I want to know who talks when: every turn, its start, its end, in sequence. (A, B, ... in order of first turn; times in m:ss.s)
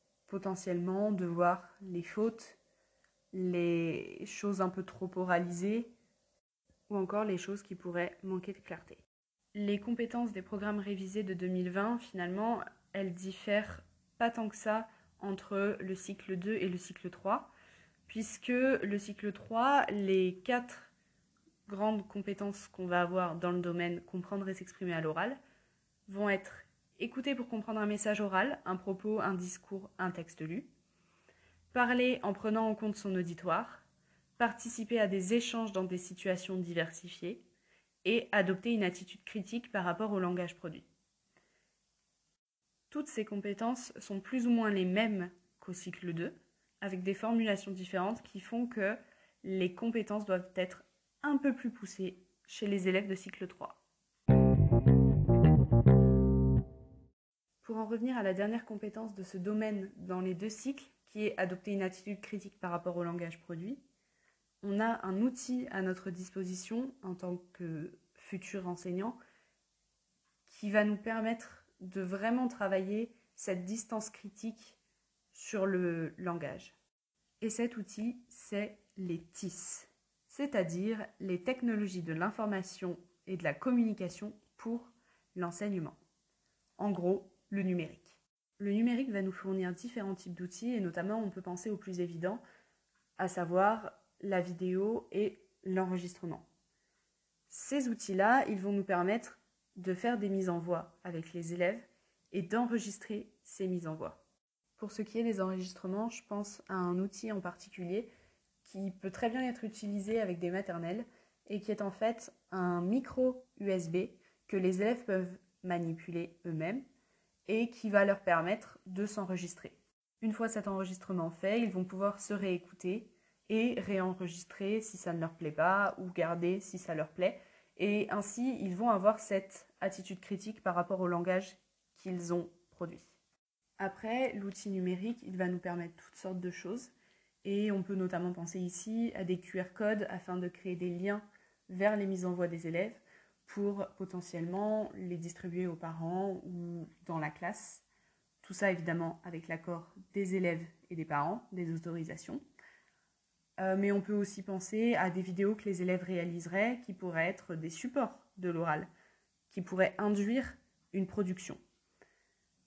0:00.3-0:02.6 A
0:03.3-0:05.9 A
0:06.9-0:17.5 A
0:18.0-0:20.9 A
0:21.7-0:25.4 A
0:26.1-0:30.7 A
0:31.7-0:33.8 A
0:34.4-0:37.4 A
0:38.0-0:40.8 A
0:42.9-0:53.8 A
0:57.6-1:03.8 A
1:04.6-1:09.2 A
1:10.4-1:14.8 A
1:15.3-1:16.8 A
1:17.4-1:26.0 A
1:26.8-1:32.4 A
1:33.2-1:36.4 A
1:37.5-1:44.2 A
1:44.8-1:48.1 A
1:48.6-1:56.8 A
1:57.4-2:13.1 A
2:13.8-2:16.9 A
2:17.4-2:27.8 A
2:28.4-2:32.4 A
2:33.6-2:38.9 A
2:39.5-2:41.6 A